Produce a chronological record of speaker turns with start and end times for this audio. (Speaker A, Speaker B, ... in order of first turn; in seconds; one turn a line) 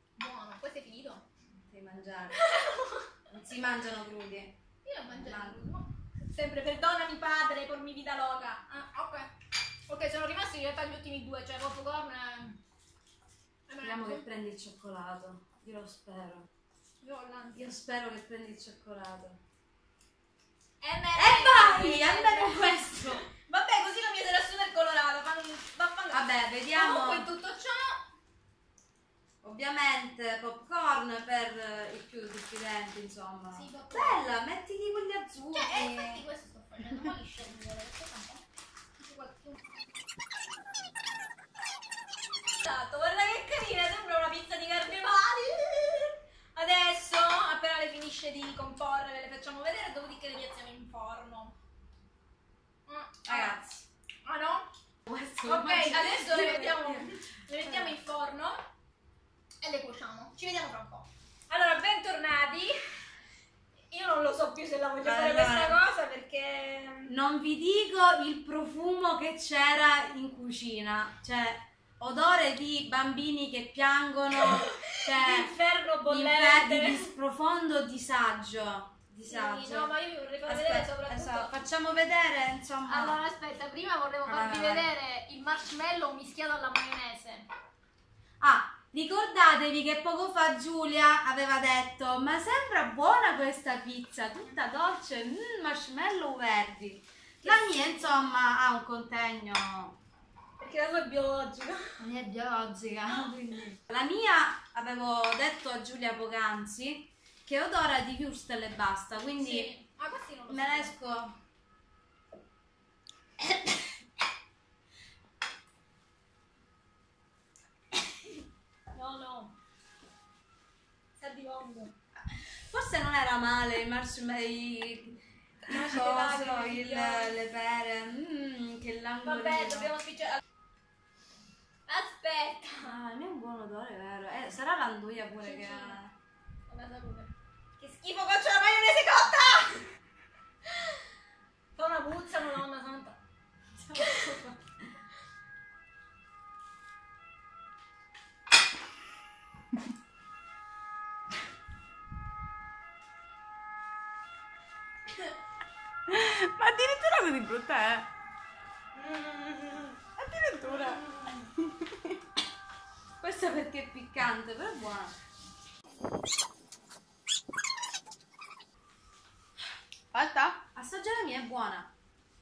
Speaker A: 0.2-1.2
Speaker B: 1.6-2.4
Speaker A: 2.3-3.1
Speaker B: 3.3-4.6
Speaker A: 4.8-9.3
Speaker B: 5.1-5.6
Speaker A: 9.9-12.6
Speaker A: 13.7-14.2
Speaker B: 13.8-16.5
Speaker A: 17.0-17.7
Speaker B: 17.6-19.4
Speaker A: 20.8-28.0
Speaker B: 21.1-23.2
Speaker B: 26.1-27.3
Speaker B: 29.4-36.2
Speaker A: 33.5-34.2
Speaker A: 35.5-38.4
Speaker A: 39.0-39.7
Speaker A: 42.6-51.5
Speaker A: 52.9-53.6
Speaker B: 53.2-53.8
Speaker A: 54.2-54.7
Speaker B: 55.1-58.0
Speaker A: 55.4-58.6
Speaker A: 59.6-62.9
Speaker A: 63.9-67.1
Speaker B: 65.0-65.8
Speaker B: 67.1-75.5
Speaker A: 74.3-77.1
Speaker B: 76.0-79.9
Speaker A: 79.2-81.5
Speaker B: 80.4-83.2
Speaker A: 82.9-87.5
Speaker B: 84.2-84.9
Speaker B: 88.4-100.0
Speaker A: 97.4-98.3
Speaker A: 100.6-101.9
Speaker B: 102.0-109.7
Speaker A: 109.3-110.9
Speaker B: 110.5-111.4
Speaker A: 118.9-119.5
Speaker A: 121.2-121.9
Speaker B: 122.3-129.9
Speaker A: 125.6-127.4
Speaker A: 129.2-130.4
Speaker A: 131.9-132.9
Speaker B: 132.8-136.1
Speaker A: 135.4-136.0
Speaker A: 136.7-139.8
Speaker A: 140.7-141.0
Speaker A: 141.8-143.2
Speaker A: 143.9-144.5
Speaker B: 143.9-144.4
Speaker C: 156.1-158.1
Speaker A: 158.9-160.0
Speaker C: 160.2-162.0
Speaker A: 160.8-161.4
Speaker B: 163.2-165.1
Speaker C: 170.1-170.6
Speaker B: 170.7-171.9